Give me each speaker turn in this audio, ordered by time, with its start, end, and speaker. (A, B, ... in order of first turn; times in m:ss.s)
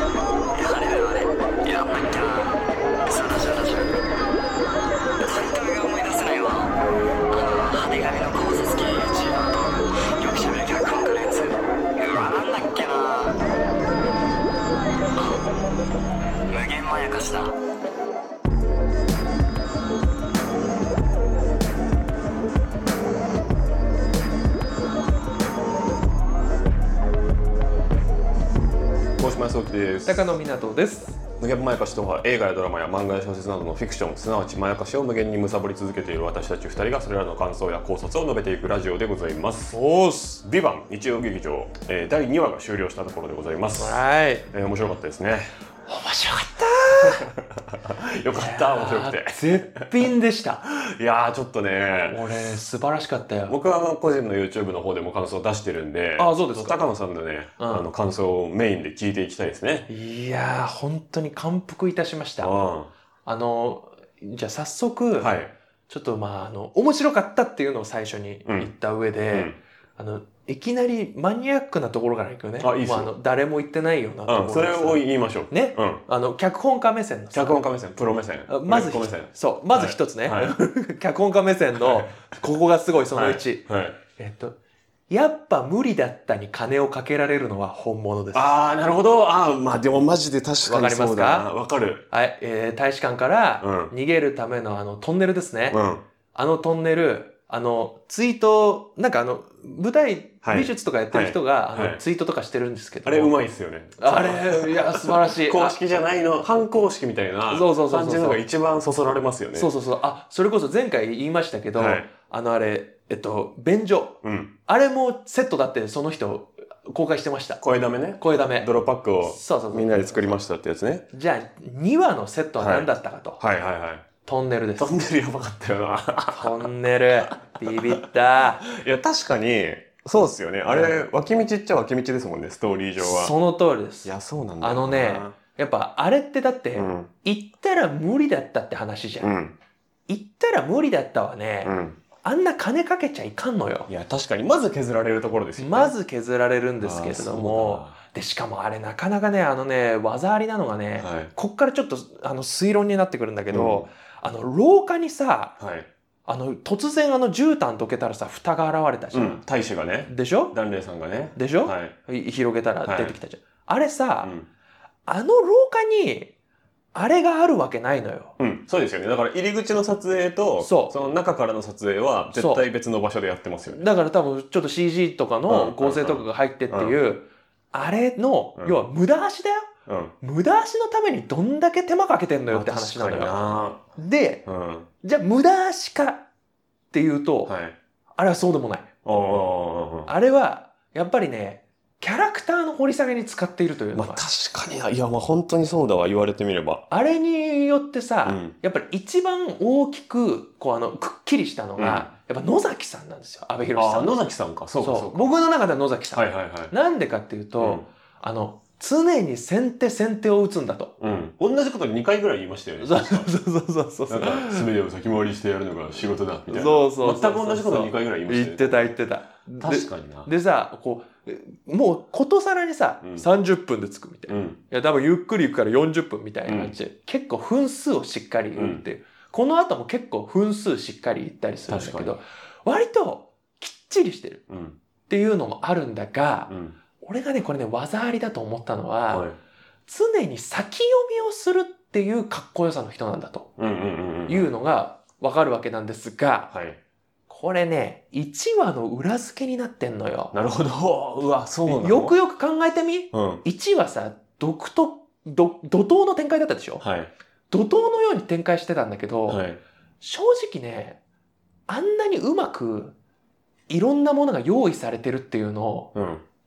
0:00.5-0:04.0 A
0:05.2-0:06.7 A
0:07.3-0:13.4 A
0:15.2-0:15.4 A
0:16.5-0:17.5 A
0:29.2-0:30.4 B
0:30.0-0:31.2 C
0:31.4-0:39.8 B
0:39.7-0:40.4 C
0:40.4-0:45.5 B
0:43.8-0:44.5 C
0:45.9-0:47.3 C
0:47.0-0:49.4 B
0:48.3-0:50.7 C
0:50.7-0:52.3 B
0:52.1-0:53.6 C
0:53.5-0:59.9 B
0:56.2-0:56.8 C
0:57.6-0:57.9 C
0:59.9-1:02.6 C
1:02.4-1:02.9 B
1:03.2-1:05.4 C
1:05.2-1:05.5 B
1:05.9-1:17.6 C
1:08.4-1:08.7 B
1:09.3-1:09.6 B
1:12.6-1:13.1 B
1:14.2-1:16.0 B
1:17.3-1:20.5 B
1:18.5-1:24.6 C
1:21.8-1:22.2 B
1:23.1-1:24.0 B
1:25.1-1:28.5 C
1:28.3-1:32.0 B
1:30.6-1:31.5 C
1:32.1-1:35.8 C
1:33.6-1:33.9 B
1:35.7-1:36.0 B
1:36.3-1:43.4 C
1:40.4-1:42.0 B
1:43.0-1:49.7 B
1:44.0-1:45.8 C
1:47.5-1:48.4 C
1:49.5-1:57.6 C
1:51.8-1:52.1 B
1:54.2-1:54.5 B
1:57.6-2:01.0 B
1:58.2-1:58.7 C
1:59.2-2:00.3 C
2:01.1-2:03.4 C
2:02.6-2:04.0 B
2:04.2-2:04.9 C
2:04.8-2:06.7 B
2:06.3-2:08.6 C
2:07.3-2:08.0 B
2:08.6-2:13.3 B
2:10.6-2:11.0 C
2:13.0-2:19.3 C
2:14.0-2:15.4 B
2:16.8-2:17.1 B
2:19.2-2:19.6 B
2:20.1-2:23.9 C
2:21.6-2:22.0 B
2:23.9-2:25.9 B
2:25.6-2:35.5 C
2:26.8-2:27.9 B
2:31.0-2:31.3 B
2:33.5-2:33.9 B
2:35.6-2:35.9 B
2:36.3-2:39.4 C
2:39.1-2:42.0 B
2:40.1-2:40.6 C
2:41.4-2:44.3 C
2:42.8-2:43.2 B
2:44.2-2:44.5 B
2:45.1-2:46.3 C
2:46.9-2:48.3 C
2:48.4-2:53.8 B
2:50.6-2:51.0 C
2:52.3-2:52.6 C
2:53.7-2:59.7 C
2:55.5-2:57.0 B
2:59.8-3:00.1 B
3:00.2-3:04.4 C
3:02.5-3:03.8 B
3:04.4-3:04.9 B
3:05.0-3:06.2 C
3:06.9-3:07.5 C
3:07.5-3:07.8 B
3:08.2-3:08.9 C
3:09.0-3:10.1 B
3:10.0-3:14.2 C
3:13.9-3:16.8 B
3:16.9-3:24.2 C
3:18.2-3:18.5 B
3:21.8-3:22.1 B
3:23.7-3:25.3 B
3:24.8-3:30.9 C
3:26.1-3:26.7 B
3:27.6-3:27.8 B
3:31.0-3:33.3 B
3:32.8-3:34.7 C
3:34.1-3:38.9 B
3:36.5-3:54.4 C
3:39.6-3:40.3 B
3:44.3-3:44.6 B
3:46.4-3:46.7 B
3:48.5-3:48.8 B
3:51.7-3:52.1 B
3:54.5-3:54.8 B
3:55.1-3:59.3 C
3:56.5-3:56.8 B
3:59.1-3:59.4 B
3:59.9-4:03.5 C
4:03.6-4:04.5 B
4:04.2-4:06.5 C
4:06.5-4:06.8 B
4:07.3-4:10.3 C
4:10.3-4:12.2 B
4:11.6-4:16.8 C
4:13.1-4:13.4 B
4:16.8-4:17.1 B
4:17.5-4:19.4 C
4:19.3-4:19.6 B
4:20.0-4:21.0 C
4:21.7-4:22.9 C
4:23.7-4:25.9 C
4:25.9-4:26.2 B